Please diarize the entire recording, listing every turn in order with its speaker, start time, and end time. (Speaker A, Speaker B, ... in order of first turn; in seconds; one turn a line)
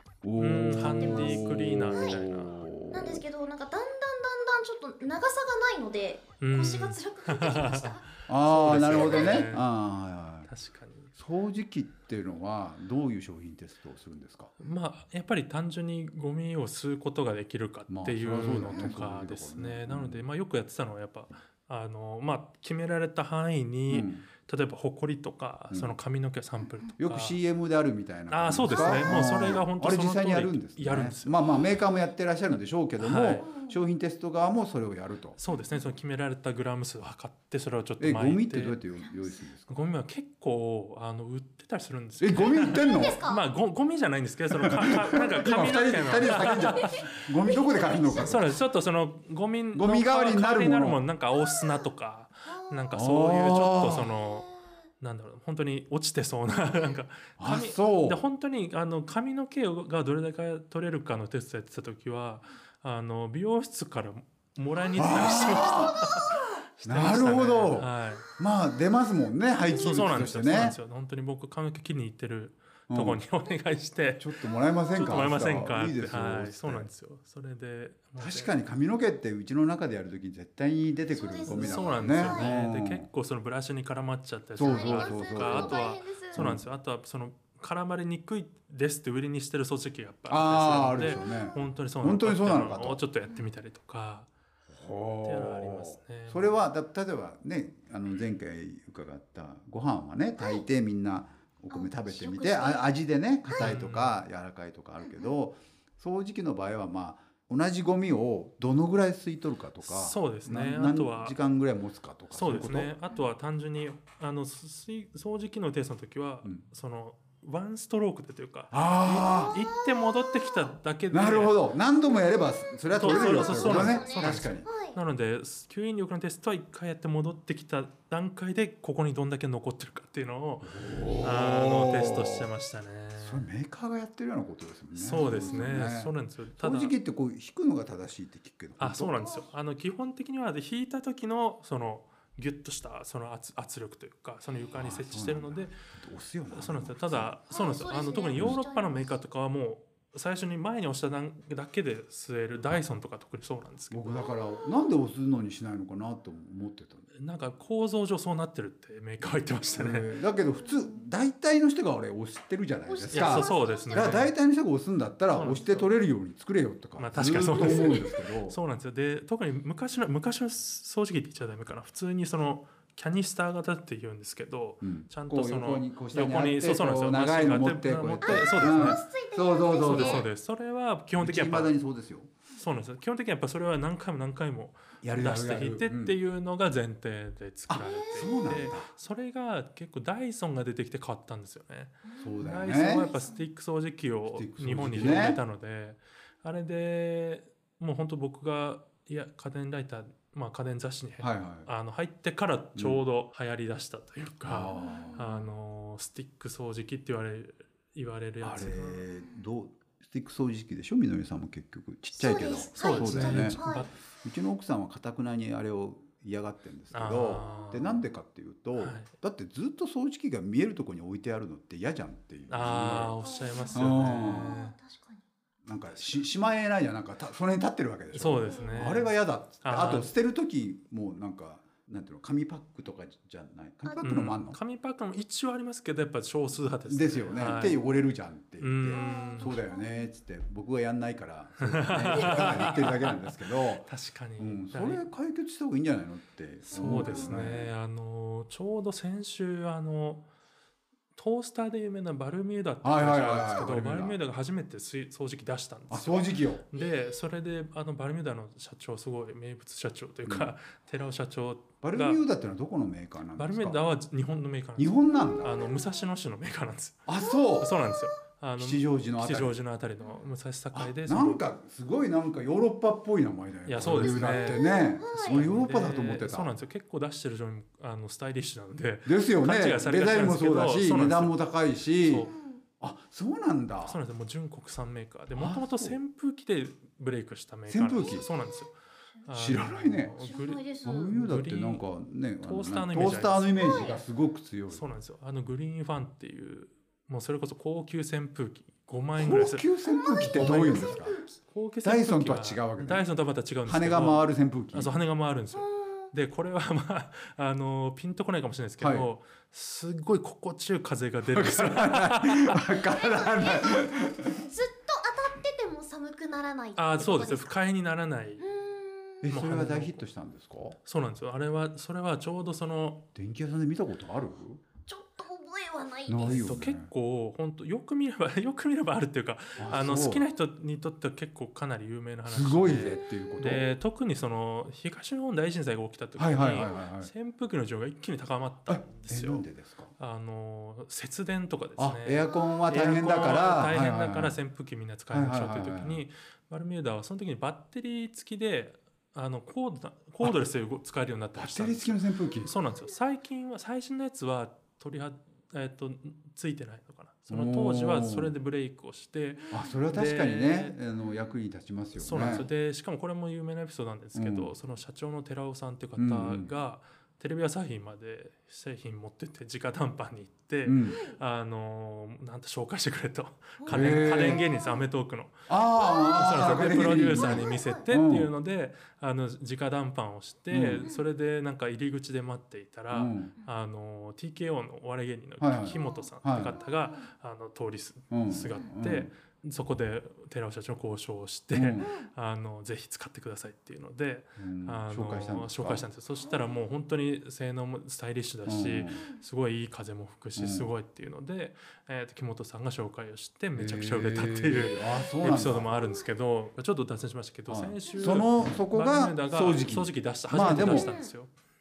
Speaker A: 0.2-3.2
Speaker B: 0.4-2.6
Speaker C: 1.0-2.0
Speaker C: 2.9-8.1
Speaker B: 6.4-9.7
Speaker A: 8.3-10.5
Speaker C: 8.8-9.5
Speaker B: 10.4-11.1
Speaker A: 11.1-14.5
Speaker B: 14.6-27.4
Speaker A: 17.9-20.2
Speaker A: 23.9-24.2
Speaker A: 27.0-35.4
Speaker B: 28.3-31.4
Speaker C: 28.7-29.2
Speaker B: 33.0-33.5
Speaker C: 33.4-33.8
Speaker B: 35.4-38.8
Speaker C: 35.5-35.9
Speaker A: 38.0-39.8
Speaker C: 39.0-39.4
Speaker B: 39.7-47.3
Speaker A: 42.2-43.2
Speaker C: 42.6-43.4
Speaker A: 44.6-48.5
Speaker C: 45.1-48.4
Speaker B: 48.2-54.5
Speaker A: 49.7-51.0
Speaker C: 51.3-51.9
Speaker C: 52.5-52.9
Speaker A: 52.9-54.1
Speaker C: 54.2-54.7
Speaker B: 55.0-68.3
Speaker A: 57.4-58.2
Speaker C: 64.8-66.6
Speaker A: 65.0-66.1
Speaker A: 66.8-70.8
Speaker C: 69.6-70.2
Speaker B: 69.7-74.3
Speaker A: 72.9-73.2
Speaker A: 74.2-76.9
Speaker B: 74.9-78.5
Speaker A: 78.2-83.1
Speaker C: 81.1-82.6
Speaker B: 81.5-94.3
Speaker A: 84.6-86.7
Speaker C: 84.6-86.5
Speaker A: 90.3-93.0
Speaker C: 91.0-91.6
Speaker A: 94.7-113.0
Speaker B: 95.2-96.5
Speaker C: 101.7-102.9
Speaker C: 103.5-103.8
Speaker B: 103.6-104.2
Speaker C: 105.0-105.3
Speaker B: 109.8-111.4
Speaker B: 112.3-121.6
Speaker A: 118.7-119.6
Speaker C: 119.2-120.7
Speaker A: 121.1-124.7
Speaker C: 122.2-125.0
Speaker B: 122.9-133.4
Speaker A: 130.6-132.5
Speaker A: 133.2-139.2
Speaker B: 134.9-136.9
Speaker C: 135.2-135.7
Speaker B: 138.8-145.8
Speaker C: 139.1-139.5
Speaker A: 144.7-147.4
Speaker B: 146.5-154.2
Speaker C: 147.5-149.2
Speaker A: 148.3-148.6
Speaker A: 153.9-157.1
Speaker C: 154.2-154.8
Speaker B: 157.1-160.1
Speaker A: 159.8-168.6
Speaker C: 160.5-161.1
Speaker C: 162.9-164.3
Speaker B: 163.1-164.3
Speaker B: 165.3-165.9
Speaker B: 166.9-179.0
Speaker C: 167.5-168.2
Speaker A: 174.8-180.3
Speaker C: 178.2-180.3
Speaker B: 179.8-181.7
Speaker A: 181.2-182.3
Speaker B: 182.6-209.1
Speaker A: 185.0-186.2
Speaker A: 187.7-188.9
Speaker C: 187.8-188.3
Speaker C: 192.0-193.4
Speaker A: 192.2-193.1
Speaker A: 194.3-195.4
Speaker A: 201.2-201.7
Speaker A: 202.8-203.0
Speaker A: 204.4-205.3
Speaker C: 204.7-205.4
Speaker A: 208.4-213.6
Speaker C: 209.1-209.4
Speaker C: 212.1-213.9
Speaker B: 212.8-213.9
Speaker A: 214.2-224.5
Speaker B: 216.9-217.9
Speaker C: 217.3-217.9
Speaker B: 218.8-219.1
Speaker B: 222.5-224.8
Speaker C: 223.2-225.2
Speaker A: 225.6-234.6
Speaker B: 225.9-226.2
Speaker B: 228.1-230.1
Speaker C: 228.5-229.1
Speaker C: 233.8-234.2
Speaker B: 234.0-237.8
Speaker A: 236.9-243.9
Speaker B: 238.6-239.6
Speaker C: 238.9-240.1
Speaker B: 241.6-245.1
Speaker C: 242.1-242.8
Speaker A: 244.4-247.7
Speaker C: 246.7-247.6
Speaker B: 246.7-250.3
Speaker B: 251.2-262.2
Speaker A: 252.8-254.2
Speaker A: 255.9-256.6
Speaker C: 256.8-257.2
Speaker A: 260.3-260.5
Speaker A: 261.8-263.8
Speaker B: 263.4-267.1
Speaker A: 264.8-265.7
Speaker C: 265.1-266.1
Speaker A: 267.1-267.8
Speaker C: 267.2-268.1
Speaker B: 267.6-271.4
Speaker A: 268.6-269.6
Speaker A: 270.8-276.5
Speaker B: 273.6-274.6
Speaker C: 273.9-275.5
Speaker B: 275.1-281.4
Speaker A: 279.1-282.3
Speaker B: 282.1-282.3
Speaker C: 282.1-282.6
Speaker A: 282.8-284.0
Speaker B: 283.8-288.7
Speaker A: 285.4-286.0
Speaker A: 287.7-288.2
Speaker C: 288.0-288.7
Speaker B: 289.2-291.8
Speaker A: 289.3-290.2
Speaker C: 290.2-291.1
Speaker A: 290.8-294.8
Speaker B: 292.4-293.9
Speaker C: 293.6-294.0
Speaker B: 294.7-299.7
Speaker A: 299.1-301.2
Speaker C: 299.9-301.4
Speaker B: 300.2-312.6
Speaker A: 301.8-303.0
Speaker A: 303.6-304.9
Speaker C: 305.5-306.1
Speaker A: 308.8-309.1
Speaker A: 311.3-314.4
Speaker C: 312.9-317.6
Speaker B: 316.8-318.4
Speaker C: 318.4-319.2
Speaker A: 319.2-320.8
Speaker B: 319.3-320.1
Speaker B: 320.9-323.0
Speaker A: 323.1-324.6
Speaker C: 324.9-326.5
Speaker A: 326.1-326.9
Speaker B: 326.3-339.4
Speaker A: 329.6-330.2
Speaker A: 332.3-333.7
Speaker A: 336.2-337.1
Speaker A: 338.7-339.9
Speaker B: 340.0-360.8
Speaker A: 341.8-344.4
Speaker A: 345.1-346.0
Speaker A: 351.3-352.5
Speaker A: 357.3-358.3
Speaker A: 359.5-362.5
Speaker B: 361.9-375.4
Speaker A: 364.1-364.5
Speaker A: 366.0-366.5
Speaker A: 370.6-371.0
Speaker C: 370.9-371.2
Speaker C: 373.6-374.8
Speaker A: 373.7-374.4
Speaker A: 375.5-378.3
Speaker C: 375.8-377.8
Speaker B: 376.1-411.3
Speaker A: 380.5-380.9
Speaker A: 382.9-383.3
Speaker A: 385.4-386.6
Speaker C: 385.7-387.1
Speaker A: 388.1-389.1
Speaker A: 391.5-391.9
Speaker C: 391.8-392.1
Speaker A: 394.4-395.9
Speaker A: 398.4-399.0
Speaker A: 400.4-400.7
Speaker A: 403.6-405.7
Speaker C: 405.8-406.0
Speaker A: 407.5-411.0
Speaker C: 407.9-408.2
Speaker C: 410.7-411.1